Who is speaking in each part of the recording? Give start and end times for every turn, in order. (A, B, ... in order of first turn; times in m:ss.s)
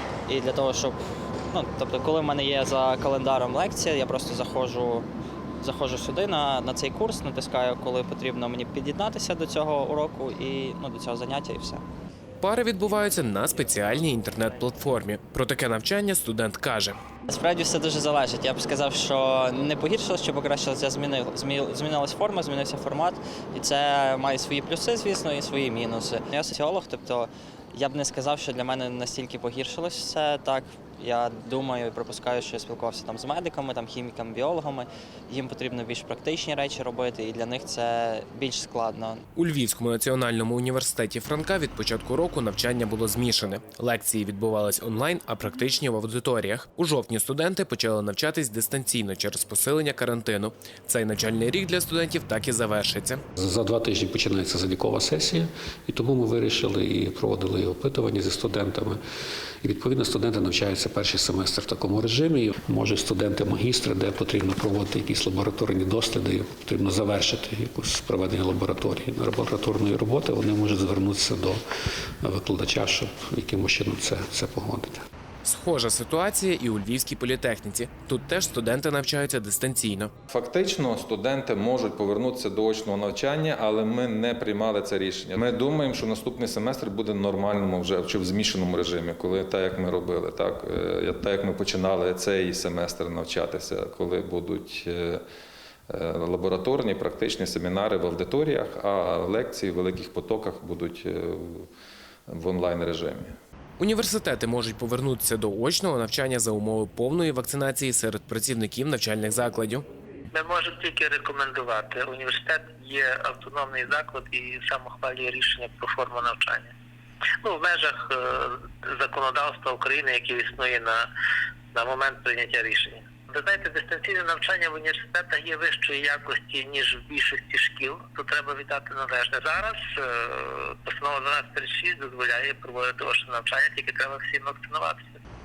0:00.3-0:01.0 A
0:01.5-0:05.1 A
0:05.6-0:11.8 A
0:12.4-0:17.0 B
0:17.3-0:39.2 A
0:39.4-0:53.2 B
0:53.4-0:59.0 C
0:59.6-1:11.6 C
1:12.2-1:15.0 C
1:15.4-1:20.1 B
1:20.3-1:35.2 D
1:35.9-1:41.7 D
1:42.3-1:43.4 D
1:43.8-1:49.8 B
1:50.3-1:56.7 E
1:57.4-2:01.0 E
2:01.7-2:15.2 E